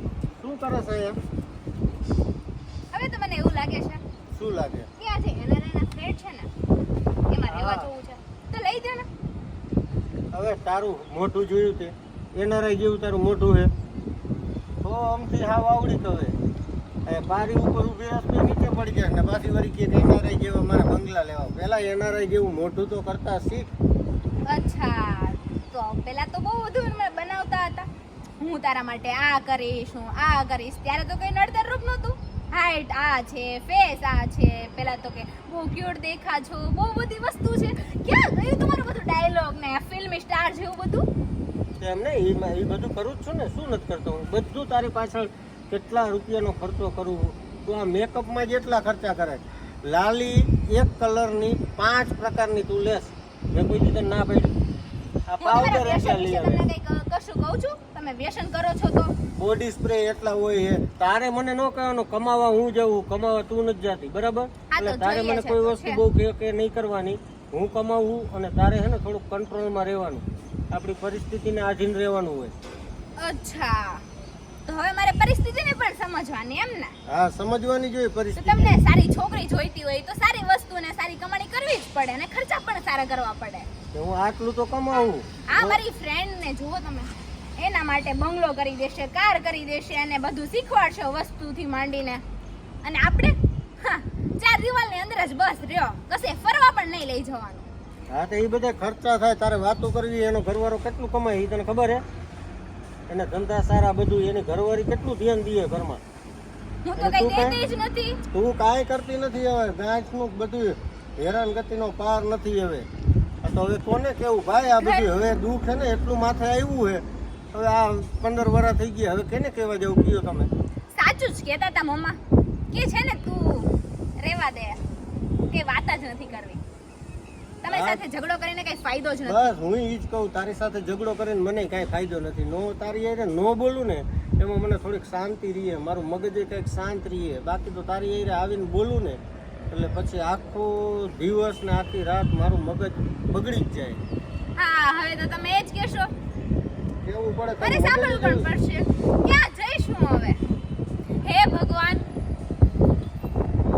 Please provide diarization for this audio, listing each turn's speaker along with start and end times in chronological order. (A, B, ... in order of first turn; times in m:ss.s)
0:00.4-0:01.2 A
0:02.9-0:04.0 B
0:04.3-0:04.9 A
0:05.0-0:06.5 B
0:07.3-0:09.1 B
0:07.5-0:07.9 A
0:10.3-0:13.7 A
0:14.8-0:16.4 A
0:17.1-0:23.7 A
0:24.5-0:27.9 B
0:28.4-0:41.0 B
0:41.8-0:54.5 A
0:55.3-0:56.7 A
0:55.4-0:59.2 B
0:59.4-1:12.5 A
1:04.7-1:06.0 B
1:13.2-1:14.0 B
1:14.7-1:17.0 B
1:17.1-1:18.8 A
1:18.4-1:23.7 B
1:23.9-1:25.8 A
1:25.5-1:32.2 B
1:32.8-1:37.7 B
1:38.1-1:42.0 A
1:43.1-1:46.0 A
1:46.8-1:48.2 B
1:47.0-1:47.6 A
1:48.3-1:52.9 A
1:53.4-2:00.5 A
1:54.8-1:55.1 B
2:00.9-2:02.2 B
2:02.7-2:03.7 B
2:04.2-2:04.8 B
2:05.5-2:06.6 B
2:07.6-2:09.5 B
2:07.7-2:08.0 A
2:09.3-2:19.2 A
2:19.7-2:24.0 A
2:24.6-2:26.1 B
2:27.0-2:28.5 A
2:27.6-2:30.4 B
2:31.2-2:32.0 B